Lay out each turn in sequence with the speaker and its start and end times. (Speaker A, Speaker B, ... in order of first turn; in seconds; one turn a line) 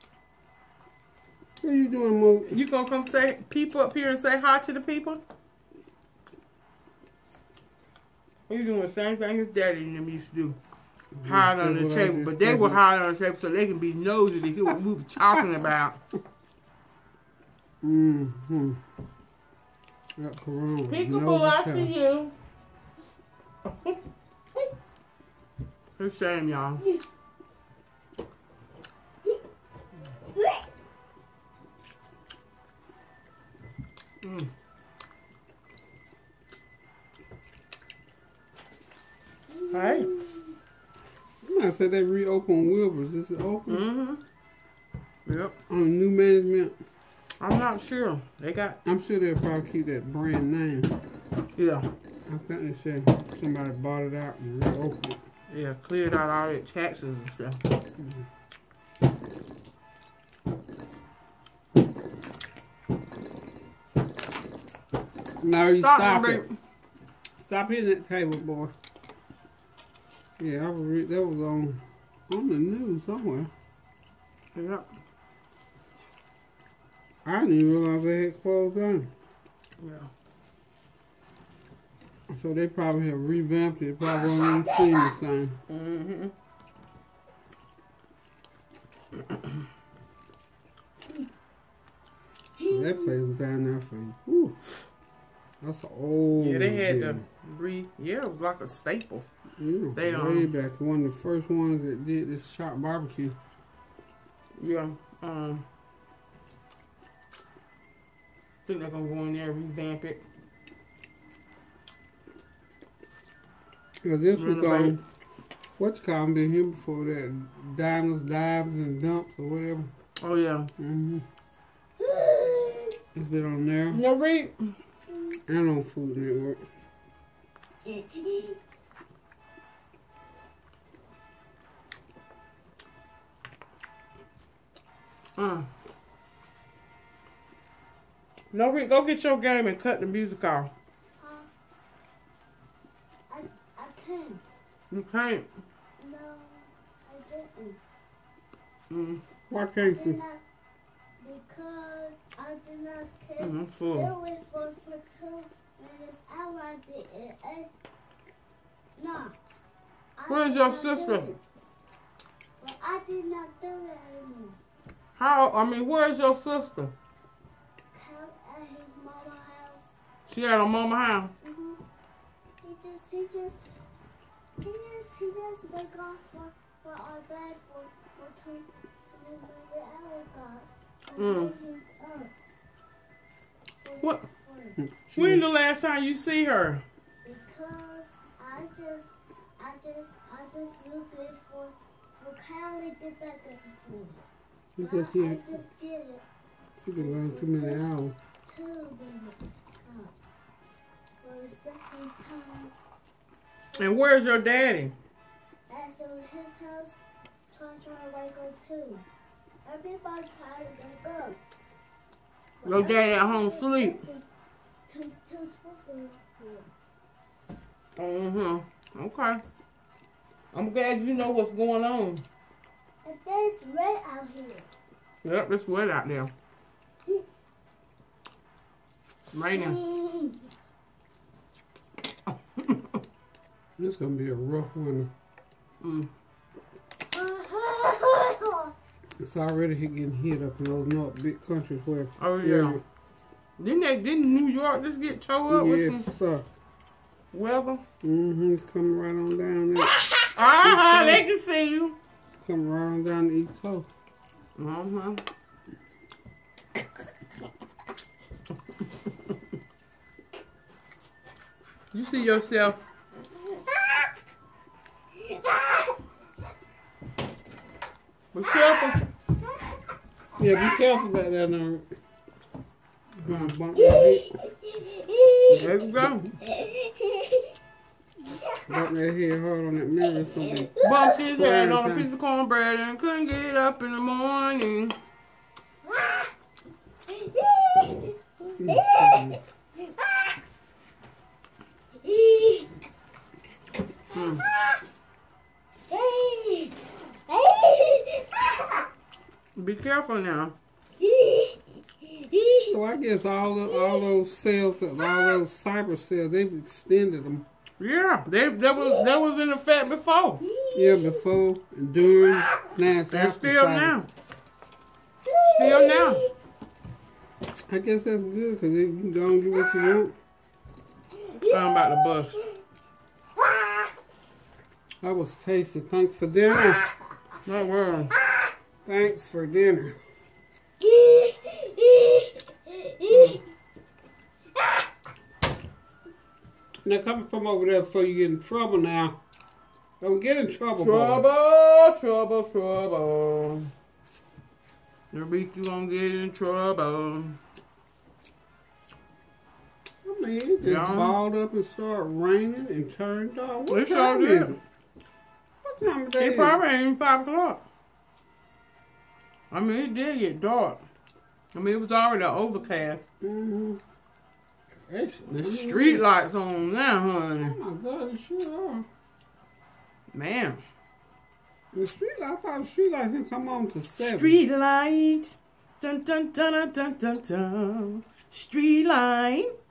Speaker A: 1.6-2.6
Speaker B: 2.5-5.2
Speaker B: 8.5-10.6
Speaker A: 11.2-12.8
Speaker B: 11.2-16.0
Speaker A: 17.8-18.8
Speaker A: 20.2-21.9
Speaker B: 20.9-22.3
Speaker B: 23.7-23.9
Speaker B: 26.0-26.8
Speaker B: 34.2-34.5
Speaker C: 39.5-40.5
Speaker B: 39.7-40.1
Speaker A: 41.4-43.9
Speaker B: 43.7-44.2
Speaker B: 45.2-45.5
Speaker A: 45.7-46.8
Speaker B: 47.4-48.8
Speaker A: 48.9-51.0
Speaker B: 51.6-51.9
Speaker A: 52.3-55.2
Speaker B: 55.5-57.6
Speaker A: 58.0-58.2
Speaker A: 65.4-66.4
Speaker B: 65.8-66.5
Speaker A: 67.4-68.7
Speaker A: 70.4-73.5
Speaker B: 74.5-74.8
Speaker A: 77.2-79.1
Speaker B: 79.8-80.1
Speaker A: 82.3-85.6
Speaker B: 85.7-86.3
Speaker C: 92.6-93.1
Speaker A: 92.7-94.6
Speaker A: 95.6-97.2
Speaker B: 96.4-99.3
Speaker A: 99.6-103.4
Speaker B: 100.0-100.5
Speaker B: 104.6-105.6
Speaker B: 108.7-110.2
Speaker A: 114.0-115.0
Speaker B: 114.4-115.0
Speaker A: 115.8-119.9
Speaker B: 120.2-120.7
Speaker A: 120.8-121.2
Speaker C: 122.0-123.0
Speaker A: 123.1-124.0
Speaker B: 123.9-124.7
Speaker A: 125.5-126.6
Speaker C: 127.9-128.6
Speaker B: 135.4-135.7
Speaker B: 138.5-140.7
Speaker C: 141.2-141.5
Speaker C: 143.3-144.4
Speaker B: 144.9-145.5
Speaker C: 146.0-147.8
Speaker B: 148.9-149.2
Speaker A: 149.5-150.2
Speaker C: 149.8-150.4
Speaker C: 151.2-157.7
Speaker B: 153.4-154.1
Speaker C: 159.0-159.3
Speaker C: 160.2-161.4
Speaker B: 160.3-161.3
Speaker C: 162.6-164.6
Speaker B: 165.2-166.9
Speaker C: 167.9-169.9
Speaker B: 170.3-171.3
Speaker C: 171.4-171.8
Speaker C: 172.6-173.7
Speaker C: 174.6-182.3
Speaker B: 181.2-181.5
Speaker C: 183.8-184.8
Speaker A: 185.1-185.4
Speaker B: 185.1-186.8
Speaker C: 187.2-194.2
Speaker A: 194.8-195.6
Speaker C: 194.8-196.2
Speaker A: 196.8-198.1
Speaker C: 197.0-197.9
Speaker C: 198.4-200.1
Speaker C: 201.2-202.7
Speaker C: 203.7-204.0
Speaker B: 203.8-204.9
Speaker C: 205.7-207.0
Speaker C: 207.5-209.0
Speaker C: 209.6-211.4
Speaker C: 212.6-214.2
Speaker B: 212.6-214.0
Speaker C: 214.9-216.7
Speaker B: 218.0-219.4
Speaker B: 220.5-222.2
Speaker C: 223.1-224.7
Speaker B: 225.2-226.3
Speaker B: 229.3-229.8
Speaker C: 229.5-230.5
Speaker B: 232.3-233.0
Speaker A: 233.8-235.1
Speaker B: 235.8-236.1
Speaker C: 237.1-238.7
Speaker A: 239.2-242.8
Speaker B: 242.2-242.8
Speaker B: 243.6-246.1
Speaker A: 245.5-246.5
Speaker B: 247.3-247.8
Speaker A: 248.0-250.1
Speaker B: 250.2-252.0
Speaker A: 250.6-251.2
Speaker A: 252.4-253.9
Speaker B: 254.6-255.2
Speaker B: 261.9-262.8
Speaker C: 265.3-265.9
Speaker B: 268.3-269.0
Speaker A: 270.4-271.9
Speaker A: 273.2-274.3
Speaker B: 273.2-273.5
Speaker C: 273.8-275.8
Speaker B: 275.5-276.3
Speaker C: 276.4-277.5
Speaker C: 278.3-278.7
Speaker A: 278.7-280.8
Speaker C: 280.8-281.1
Speaker B: 280.8-285.0
Speaker A: 281.3-282.1
Speaker C: 285.8-286.3
Speaker C: 287.1-289.3
Speaker A: 288.6-289.4
Speaker C: 289.8-290.4
Speaker C: 292.0-292.7
Speaker B: 294.1-294.4
Speaker C: 294.1-294.8
Speaker C: 295.9-298.8
Speaker B: 299.6-300.6
Speaker C: 301.0-302.7
Speaker A: 302.6-307.4
Speaker C: 303.7-304.0
Speaker C: 305.1-305.4
Speaker B: 307.8-310.4
Speaker C: 308.8-309.1
Speaker C: 310.4-311.2
Speaker A: 310.7-313.9
Speaker B: 313.1-314.1
Speaker C: 315.2-316.3
Speaker B: 315.5-316.2
Speaker A: 317.7-320.1
Speaker C: 321.2-322.4
Speaker B: 321.5-322.4
Speaker C: 323.4-323.9
Speaker A: 325.0-326.9
Speaker B: 327.4-328.1
Speaker A: 328.9-330.0
Speaker C: 330.8-333.4
Speaker B: 333.1-333.4
Speaker A: 336.8-339.2
Speaker A: 340.0-341.2
Speaker B: 340.8-343.7
Speaker B: 345.1-347.4
Speaker A: 350.0-354.6
Speaker B: 350.6-351.1
Speaker B: 353.7-354.6
Speaker A: 355.6-356.6
Speaker B: 356.2-357.6
Speaker B: 359.5-360.8
Speaker B: 361.5-363.0
Speaker A: 363.2-363.8
Speaker A: 364.9-366.1
Speaker B: 365.4-367.6
Speaker A: 367.4-368.9
Speaker B: 370.1-370.6
Speaker A: 371.7-374.4
Speaker B: 374.0-379.5